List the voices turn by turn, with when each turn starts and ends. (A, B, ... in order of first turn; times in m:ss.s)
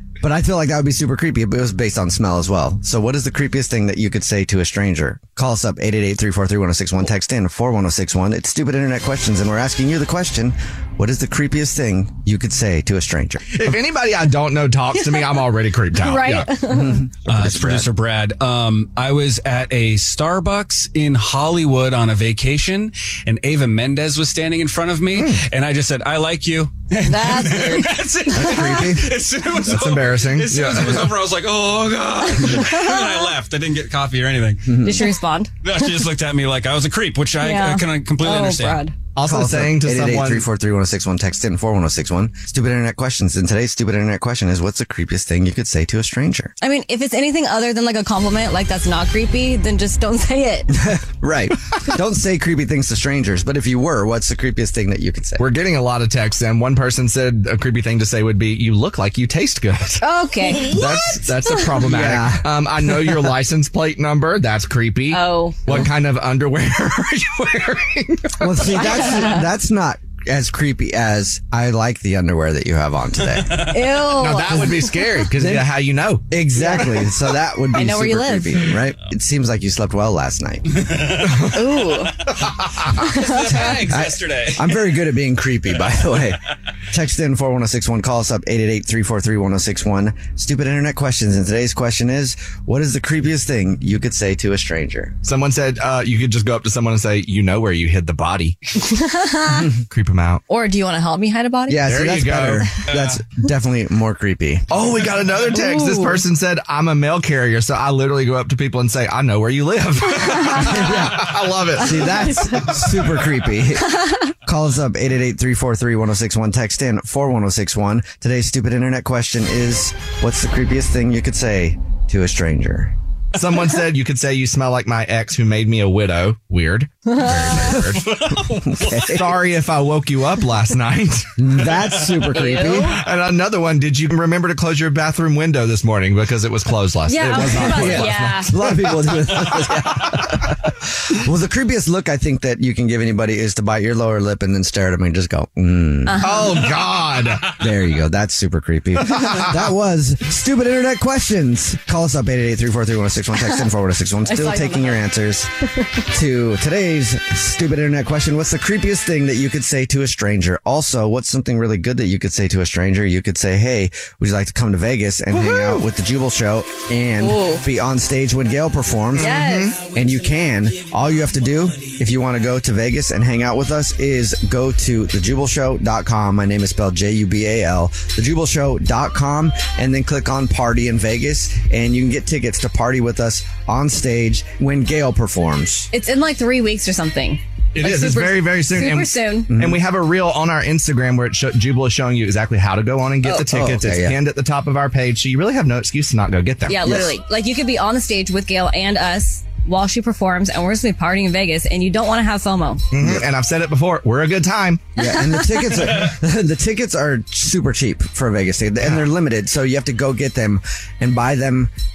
0:00.2-0:13.5 A
0:13.5-0:16.5 B
0:16.0-0:17.0 C
0:16.7-0:17.9 A
0:17.3-0:34.8 D
0:27.0-0:28.9 C
0:28.3-0:29.1 A
0:29.7-0:31.1 B
0:32.4-0:33.3 C
0:34.6-0:35.0 A
0:34.8-0:36.0 C
0:35.6-0:38.8 D
0:37.4-0:38.9 C
0:39.1-0:40.5 B
0:39.2-0:46.5 A
0:46.6-0:50.8 C
0:50.8-0:55.4 A
0:55.4-1:00.0 B
1:00.0-1:00.8 C
1:00.6-1:08.8 B
1:01.8-1:02.5 A
1:05.1-1:05.6 C
1:08.4-1:13.6 A
1:08.7-1:09.4 C
1:13.6-1:14.9 C
1:14.1-1:16.3 B
1:15.4-1:15.7 A
1:16.3-1:20.8 A
1:16.5-1:16.9 C
1:17.7-1:18.7 C
1:20.9-1:21.4 D
1:21.5-1:22.2 C
1:23.0-1:23.8 C
1:23.1-1:24.9 D
1:23.8-1:26.4 A
1:26.9-1:35.2 A
1:35.2-1:38.6 B
1:38.9-1:39.6 C
1:39.9-1:40.4 B
1:40.5-1:42.0 C
1:41.7-1:44.6 A
1:41.9-1:42.7 B
1:44.7-1:52.4 B
1:45.5-1:46.2 C
1:50.3-1:50.7 C
1:50.6-2:02.9 A
2:03.3-2:08.1 B
2:07.1-2:07.5 C
2:08.0-2:09.1 D
2:08.8-2:09.3 A
2:09.0-2:11.4 B
2:11.4-2:13.0 A
2:12.3-2:13.0 C
2:13.0-2:19.4 B
2:17.1-2:18.5 C
2:17.3-2:26.2 A
2:26.0-2:26.5 C
2:26.2-2:27.5 B
2:27.5-2:35.5 A
2:29.1-2:29.5 B
2:34.2-2:35.0 C
2:36.1-3:05.9 A
2:45.4-2:45.8 B
2:47.2-2:47.6 C
2:49.2-2:49.8 C
2:49.2-2:49.8 B
3:05.9-3:09.5 C
3:07.7-3:17.0 B
3:09.5-3:09.8 A
3:13.4-3:14.2 A
3:16.7-3:22.8 C
3:16.8-3:17.1 A
3:22.9-3:24.8 B
3:23.0-3:23.2 A
3:25.0-3:31.7 A